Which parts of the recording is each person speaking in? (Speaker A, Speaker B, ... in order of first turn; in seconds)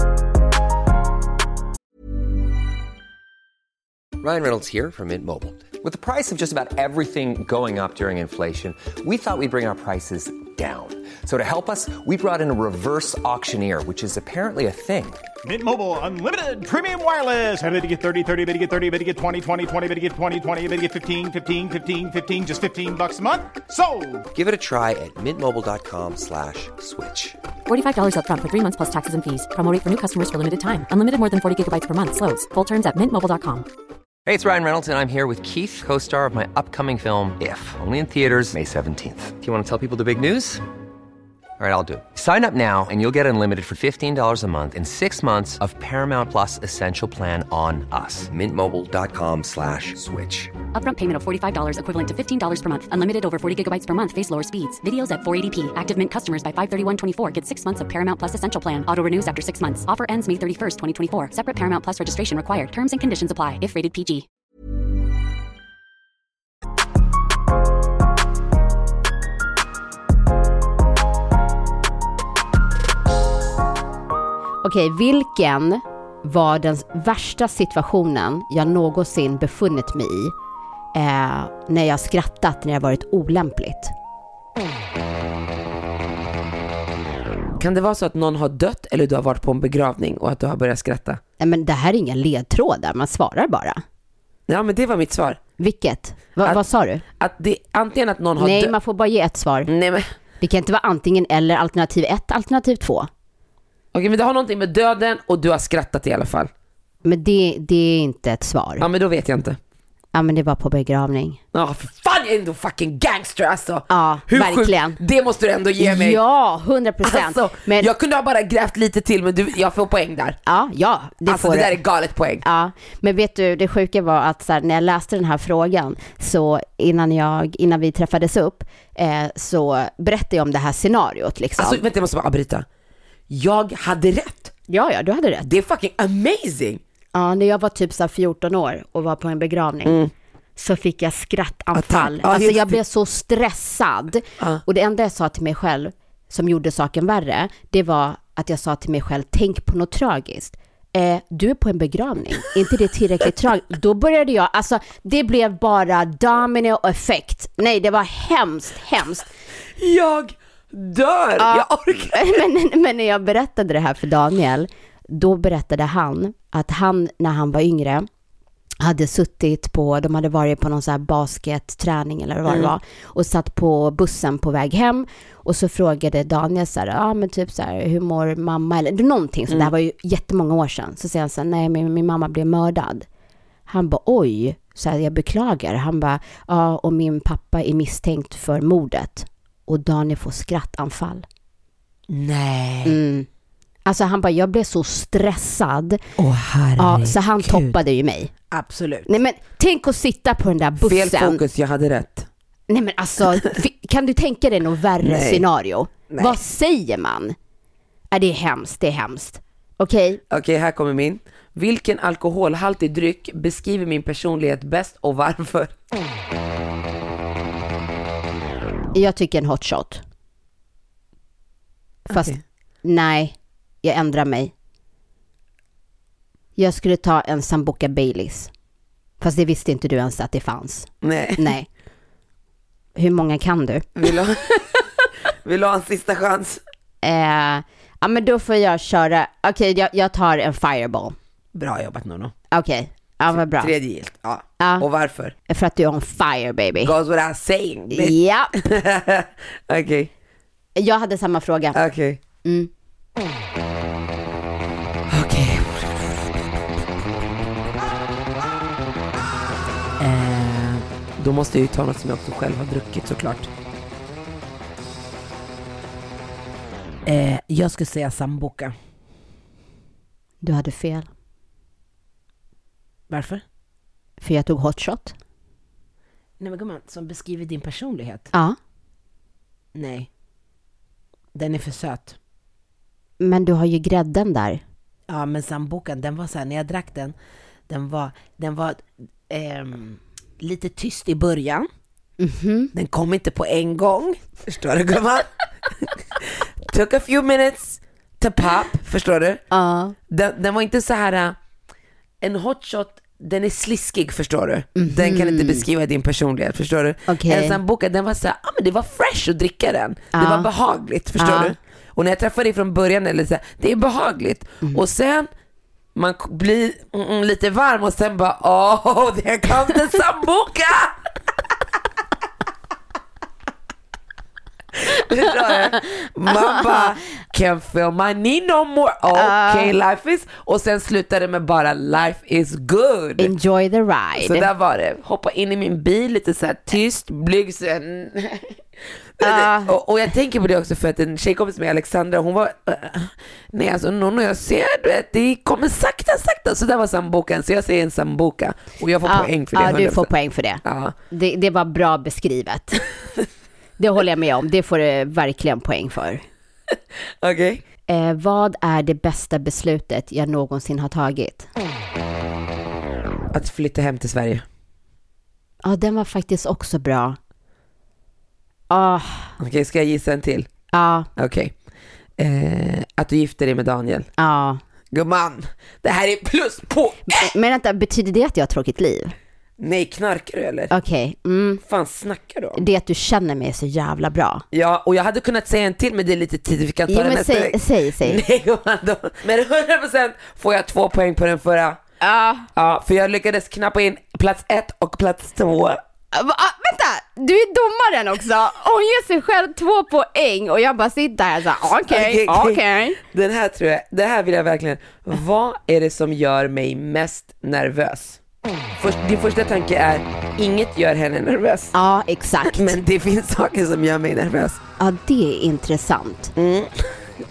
Speaker A: 4.2-15.2, 24.3-27.4, 34.2-40.6, 41.6-50.5
Speaker B: 15.4-24.3
Speaker C: 27.7-33.7, 50.8-64.3
Speaker D: 74.6-80.3, 81.0-83.9, 91.4-93.8, 95.6-97.0, 98.4-99.7, 100.4-103.1, 107.0-108.9, 110.1-111.4, 113.9-115.0, 115.8-117.9, 120.5-121.7, 122.4-131.8, 134.7-135.5, 137.1-140.0, 140.6-159.3, 161.4-168.1, 168.8-183.1, 183.7-191.3, 192.8-193.3, 193.9-196.0, 196.8-198.3, 199.1-201.4, 202.7-207.4, 208.1-210.2, 218.9-220.0, 222.1-224.5, 226.6-228.5, 229.2-231.7, 233.0-233.9, 237.0-241.2, 242.5-243.7, 244.6-244.9, 245.5-246.9, 247.9-248.5, 250.8-251.8, 252.4-252.7, 270.4-271.1, 274.2-275.2, 283.2-284.6, 292.2-292.7, 299.5-300.0, 304.8-305.7, 307.1-307.6, 310.1-310.5, 311.2-311.6, 326.5-326.9, 329.1-329.8, 333.2-334.5, 339.2-339.7, 349.0-352.9, 353.8-356.2, 357.9-361.5, 365.6-367.2, 368.7-369.3, 370.7-371.1, 374.2-374.6, 377.1-379.1, 380.7-381.6, 382.6-384.4, 386.9-388.2, 392.0-392.5, 396.1-403.0, 411.7-412.8, 414.8-416.4
Speaker E: 87.6-91.2, 94.5-95.4, 97.2-98.8, 99.7-100.1, 103.9-106.5, 108.8-109.6, 111.5-116.2, 117.0-120.4, 121.2-122.4, 131.6-132.7, 133.3-134.5, 135.4-136.8, 139.8-140.1, 141.7-142.8, 159.8-162.4, 172.5-172.7, 192.1-193.0, 196.2-197.8, 198.5-199.1, 200.8-202.3, 205.0-205.4, 206.1-206.4, 210.3-215.7, 222.1-222.4, 231.0-231.5, 234.0-234.9, 235.4-236.6, 241.6-242.3, 243.3-245.3, 246.8-250.1, 251.7-252.2, 255.1-256.4, 260.0-263.5, 267.1-268.8, 273.1-273.4, 276.4-278.3, 279.8-280.1, 281.4-282.2, 285.1-287.1, 287.7-291.7, 292.7-299.4, 300.1-301.4, 302.2-315.3, 315.9-321.0, 324.7-333.3, 334.2-338.6, 339.2-350.1, 350.6-350.9, 357.2-357.6, 363.3-364.4, 369.4-370.5, 371.2-371.5, 372.2-374.1, 374.9-377.3, 379.6-380.7, 381.6-382.6, 384.5-391.8, 392.6-395.8, 401.9-408.2, 408.8-411.7, 412.4-414.6, 416.4-416.8